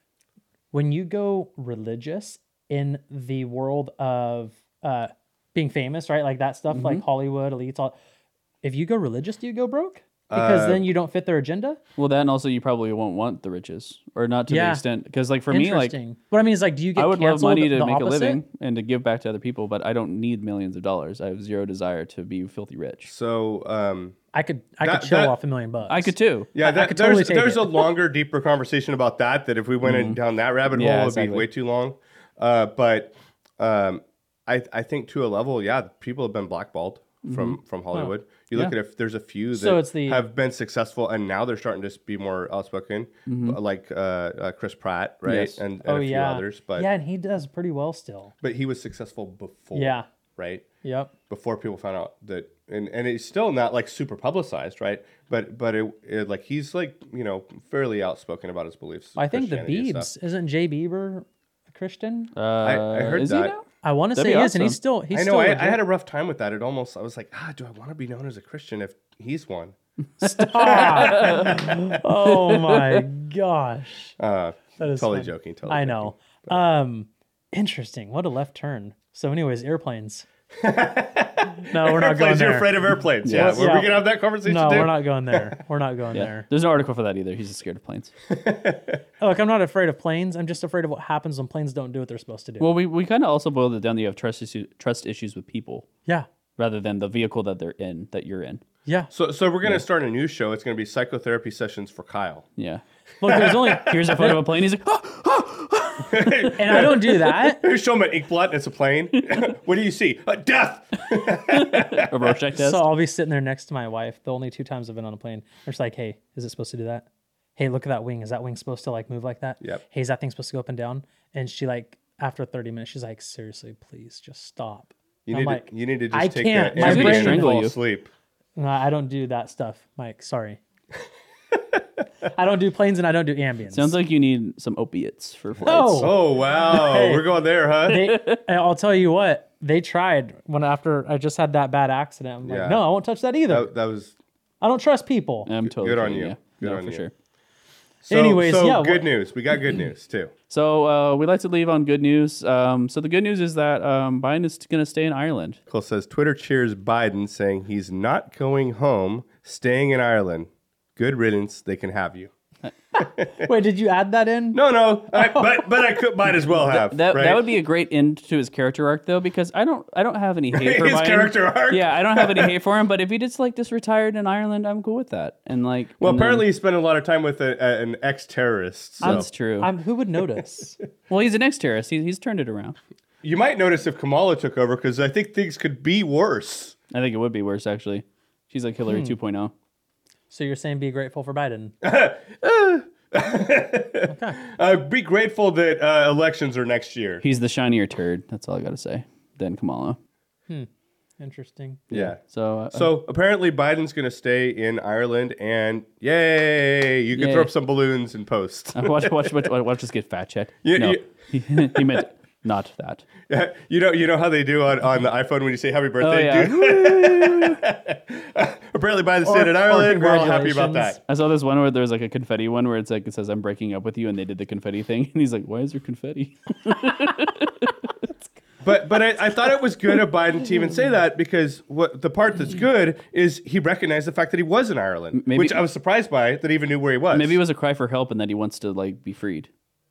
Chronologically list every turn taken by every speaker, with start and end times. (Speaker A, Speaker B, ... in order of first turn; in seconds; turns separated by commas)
Speaker A: 0.7-8.0, Speaker B: 6.7-7.0, Speaker A: 8.6-11.8, Speaker C: 10.3-10.9, Speaker B: 12.0-15.9, Speaker A: 14.5-14.8, Speaker A: 15.5-18.4, Speaker B: 17.0-23.1, Speaker C: 23.1-24.2, Speaker A: 24.3-27.9, Speaker C: 24.8-25.3, Speaker B: 25.9-26.5, Speaker C: 26.5-46.9, Speaker B: 29.8-30.2, Speaker B: 30.7-31.5, Speaker B: 37.2-37.6, Speaker A: 39.5-40.2, Speaker B: 43.3-43.6, Speaker B: 45.2-45.6, Speaker A: 45.8-48.3, Speaker C: 48.4-50.6, Speaker A: 49.7-50.1, Speaker A: 50.8-51.1, Speaker C: 51.3-60.1, Speaker A: 59.1-62.3, Speaker B: 62.4-63.6, Speaker C: 62.6-63.6, Speaker A: 63.8-65.8, Speaker B: 64.2-64.8, Speaker C: 65.1-69.8, Speaker A: 70.2-74.1, Speaker B: 70.2-71.6, Speaker C: 70.6-72.0, Speaker B: 72.3-73.0, Speaker C: 74.2-76.6, Speaker A: 74.8-80.3, Speaker C: 80.6-85.6, Speaker A: 81.7-86.5, Speaker B: 83.2-83.6, Speaker B: 86.1-88.1, Speaker C: 88.3-89.0, Speaker A: 89.2-92.7, Speaker B: 92.6-95.9, Speaker B: 96.6-98.6, Speaker A: 98.9-99.1, Speaker C: 99.1-102.5, Speaker B: 102.6-102.8, Speaker A: 103.2-104.4, Speaker C: 103.3-104.3, Speaker B: 103.4-106.8, Speaker C: 106.0-112.4, Speaker A: 106.5-107.7, Speaker B: 109.2-109.5, Speaker B: 111.5-112.9, Speaker A: 112.5-127.5, Speaker C: 125.3-128.1, Speaker B: 126.8-127.8, Speaker A: 128.6-130.6, Speaker A: 132.2-133.9, Speaker B: 133.7-136.2, Speaker A: 135.6-137.3, Speaker C: 135.9-138.1, Speaker A: 137.8-143.7, Speaker B: 137.9-138.4, Speaker C: 142.4-142.8, Speaker C: 143.5-144.1, Speaker A: 144.6-145.5, Speaker B: 145.4-147.1, Speaker C: 145.6-147.0, Speaker C: 148.0-150.3, Speaker A: 148.1-149.1, Speaker B: 150.5-155.6, Speaker C: 155.7-162.3, Speaker C: 163.0-163.4, Speaker A: 163.3-165.7, Speaker C: 164.5-167.4, Speaker B: 166.6-176.4, Speaker C: 170.5-172.6, Speaker C: 176.0-179.3, Speaker B: 179.0-179.7, Speaker A: 179.0-180.8, Speaker B: 181.1-182.8, Speaker C: 183.2-186.8, Speaker B: 186.9-189.5, Speaker A: 188.9-189.1, Speaker A: 190.3-191.7, Speaker C: 191.8-197.2, Speaker A: 194.1-194.4, Speaker B: 197.2-200.0, Speaker A: 201.2-201.8, Speaker C: 201.9-202.2, Speaker B: 201.9-202.9, Speaker C: 202.7-209.3, Speaker B: 207.1-207.5, Speaker B: 208.7-213.1, Speaker C: 210.6-212.0, Speaker C: 213.3-221.0, Speaker B: 216.0-217.6, Speaker A: 219.2-221.0, Speaker B: 221.1-227.9, Speaker C: 228.6-237.4, Speaker B: 235.1-235.6, Speaker B: 237.1-239.5